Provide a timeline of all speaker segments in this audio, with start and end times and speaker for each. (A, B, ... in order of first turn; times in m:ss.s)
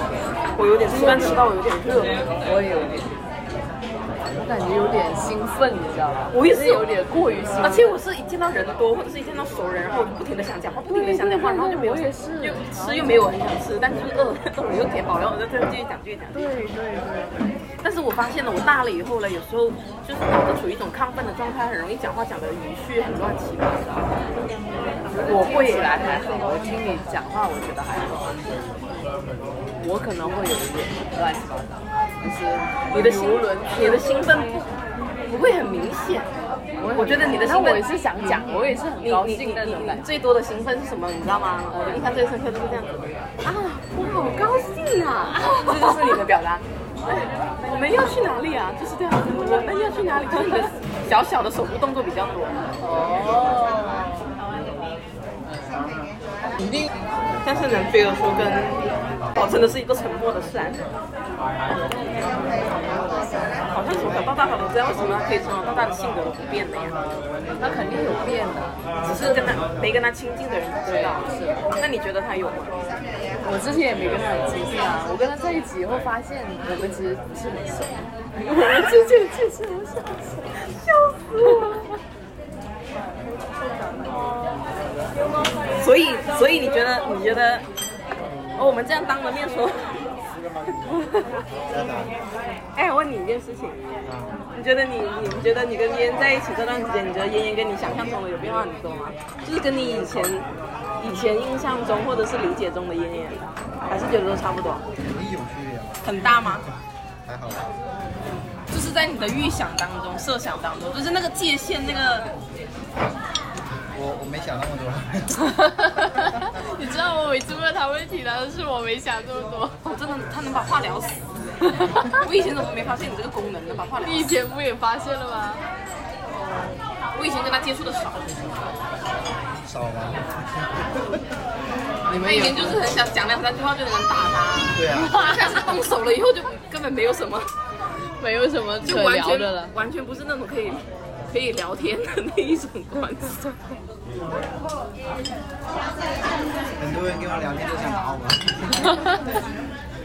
0:00.6-0:02.2 A
0:00.9-0:01.5 B
0:02.3-0:03.2 B
0:04.4-0:08.0 B
0:06.3-0:06.9 A
0:07.6-0:16.4 A
0:10.9-0:13.4 B
0:16.3-0:17.4 B
0:17.8-0:24.1 A
0:25.1-0:28.4 B
0:25.2-0:26.3 A
0:29.8-0:34.1 B
0:32.9-0:34.7 A
0:35.3-0:36.3 A
0:36.8-0:40.1 B
0:37.0-0:37.8 A
0:39.0-0:46.6 A
0:41.7-0:42.2 B
0:45.4-0:46.1 B
0:47.6-0:52.6 A
0:52.8-0:54.2 B
0:57.4-1:00.8 A
1:02.8-1:03.3 B
1:03.7-1:07.0 A
1:07.6-1:09.6 B
1:09.0-1:12.8 A
1:10.8-1:11.7 B
1:13.4-1:20.7 B
1:21.3-1:21.7 A
1:25.7-1:27.7 A
1:28.6-1:30.1 A
1:30.8-1:31.3 A
1:31.7-1:32.2 C
1:32.7-1:33.8 A
1:34.0-1:34.4 C
1:34.5-1:40.5 A
1:41.0-1:44.8 A
1:45.0-1:46.1 C
1:46.0-1:46.6 A
1:47.3-1:47.7 C
1:48.7-1:52.3 A
1:53.9-1:55.4 C
1:55.7-1:59.8 B
1:59.8-2:01.2 A
2:01.9-2:04.3 A
2:04.0-2:05.6 B
2:07.1-2:08.6 A
2:09.6-2:10.2 C
2:12.1-2:12.9 B
2:12.2-2:17.5 A
2:14.7-2:15.3 C
2:15.1-2:15.7 B
2:17.9-2:19.8 B
2:18.8-2:23.6 A
2:26.8-2:29.0 C